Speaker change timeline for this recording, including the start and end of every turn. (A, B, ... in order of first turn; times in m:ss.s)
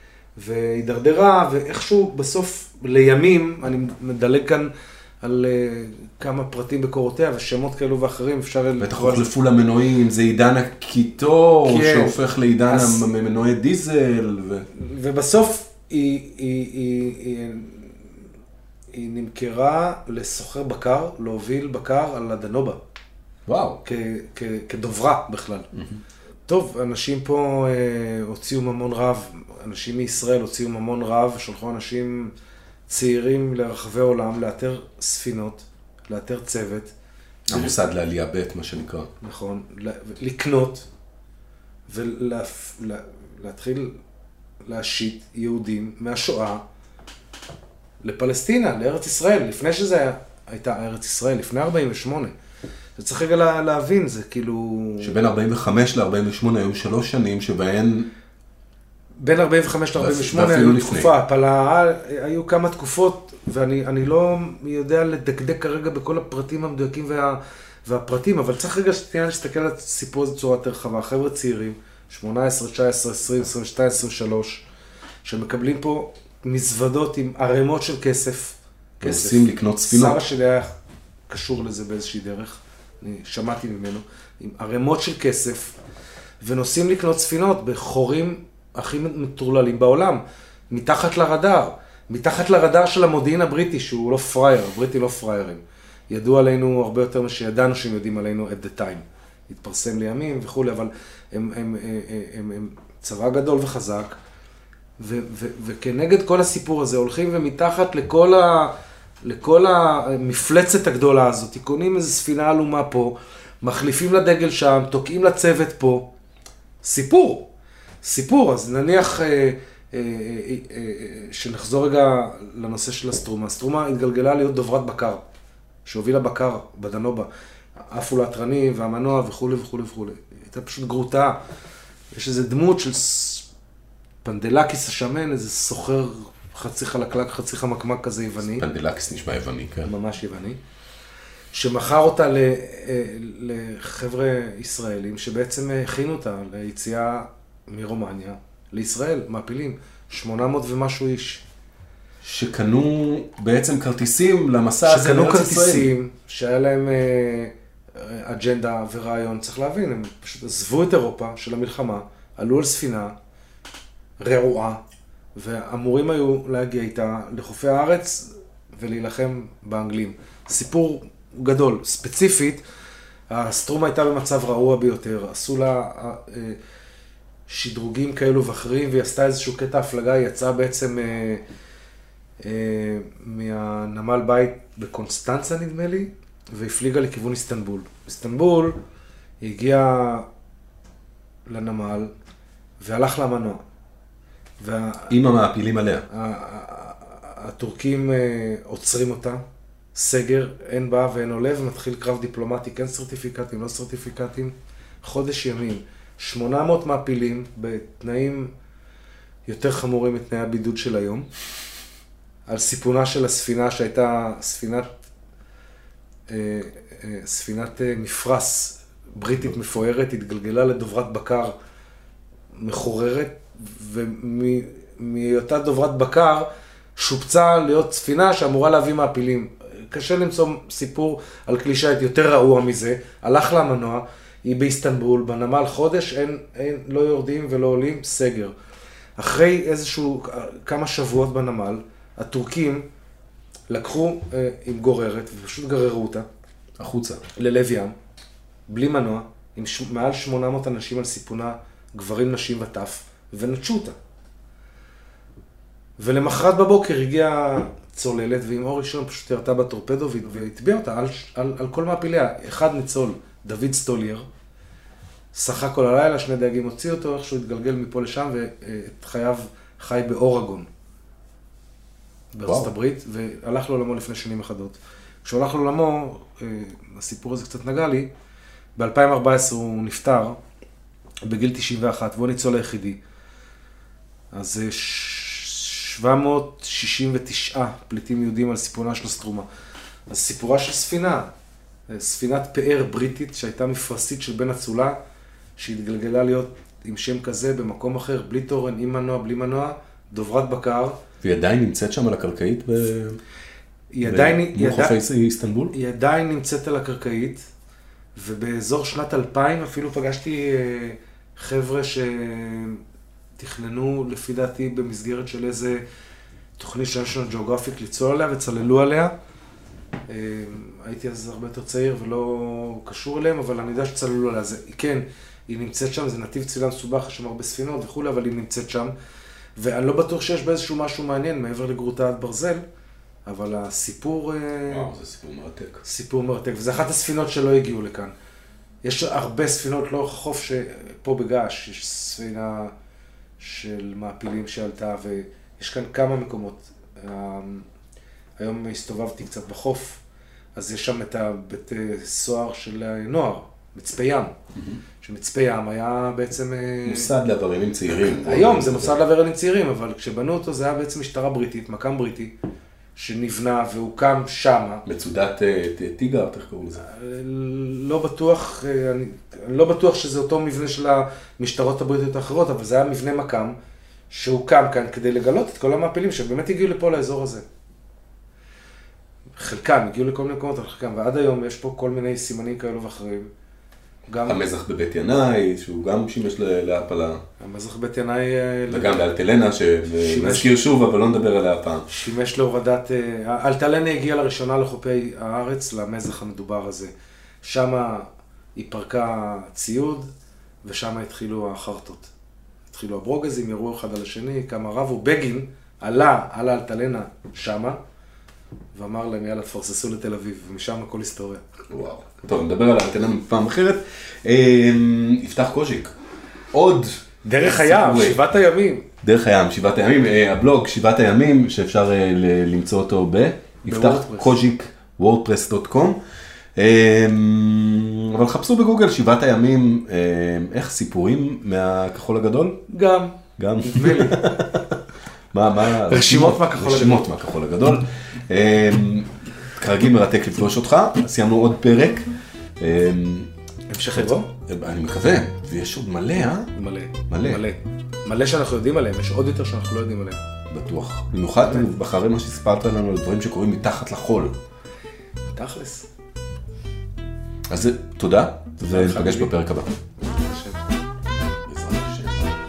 0:00.4-0:09.3 A
0:08.8-0:14.7 B
0:11.6-0:13.0 A
0:14.7-0:18.1 A
0:18.9-0:22.8 A
0:23.5-0:23.8 B
0:23.8-0:25.7 A
0:25.7-0:26.0 B
0:26.5-0:32.3 A
0:32.9-0:36.9 A
0:37.5-0:39.1 B
0:39.2-0:40.9 A
0:41.9-0:44.0 A
0:44.6-0:46.6 A
0:48.0-0:52.3 A
0:53.0-0:55.2 A
0:55.0-0:58.1 B
0:59.2-1:14.6 A
1:00.0-1:01.1 B
1:15.2-1:20.7 A
1:19.0-1:20.2 B
1:21.3-1:25.8 A
1:26.4-1:44.2 A
1:45.0-1:56.1 A
1:56.8-1:57.5 A
1:58.0-2:05.2 A
2:05.8-2:07.3 A
2:07.9-2:11.4 A
2:12.1-2:13.5 A
2:14.2-2:18.7 A
2:18.6-2:19.9 B
2:19.8-2:20.6 A
2:21.5-2:31.4 A
2:32.2-2:35.9 B
2:34.9-2:43.2 A
2:44.2-2:44.8 A
2:45.4-2:52.6 A
2:53.3-2:56.6 A
2:57.5-3:01.4 A
3:02.4-3:08.8 A
3:09.4-3:10.3 A
3:11.5-3:12.1 A
3:12.8-3:13.6 A
3:14.6-3:15.2 A
3:15.1-3:16.1 B
3:16.1-3:19.4 A
3:20.0-3:28.5 A
3:29.5-3:31.3 A
3:32.5-3:34.9 A
3:36.3-3:41.5 A
3:42.6-3:58.5 A
3:59.2-4:02.9 A
4:03.7-4:06.3 A
4:06.8-4:07.2 B
4:07.4-4:07.9 A
4:08.7-4:14.0 A
4:16.0-4:24.3 A
4:25.3-4:30.7 A
4:32.3-4:38.1 A
4:32.5-4:32.7 B
4:38.8-4:40.4 A
4:41.2-4:43.0 A
4:44.3-4:49.5 A
4:50.1-4:51.3 A
4:51.9-4:55.0 A
4:55.6-5:01.0 A
5:01.2-5:03.2 B
5:03.9-5:05.0 A
5:04.0-5:05.7 B
5:05.7-5:07.5 A
5:08.2-5:12.8 A
5:13.4-5:15.8 A
5:16.6-5:19.1 A
5:20.1-5:28.9 A
5:29.6-5:32.6 A
5:33.3-5:34.9 A
5:34.7-5:35.8 B
5:35.8-5:38.1 A
5:38.8-5:42.7 A
5:43.4-5:47.7 A
5:48.4-5:50.0 A
5:50.6-5:54.3 A
5:55.0-5:57.1 A
5:56.8-5:59.0 B
5:58.1-6:02.3 A
6:03.0-6:04.8 A
6:04.9-6:06.8 B
6:06.8-6:13.6 A
6:14.1-6:17.4 A
6:19.4-6:23.3 A
6:24.1-6:24.4 A
6:24.2-6:27.2 B
6:27.4-6:29.0 A
6:28.7-6:31.9 B
6:30.0-6:30.5 A
6:31.9-6:36.9 A
6:37.4-6:40.1 A
6:40.6-6:42.1 A
6:42.7-6:47.8 A
6:48.8-6:51.4 A
6:51.7-6:56.0 B
6:56.5-6:58.2 B
6:57.3-6:58.9 A
6:59.0-7:06.0 B
7:03.6-7:04.3 A
7:06.6-7:12.6 B
7:12.7-7:14.4 A
7:13.4-7:14.8 B
7:15.3-7:23.3 B
7:15.9-7:17.1 A
7:23.7-7:24.3 A
7:23.9-7:26.5 B
7:26.6-7:30.2 A
7:27.1-7:27.4 B
7:30.5-7:34.4 B
7:35.3-7:35.9 A
7:37.5-7:39.7 B
7:38.7-7:39.3 A
7:40.0-7:40.6 A
7:41.4-7:42.4 B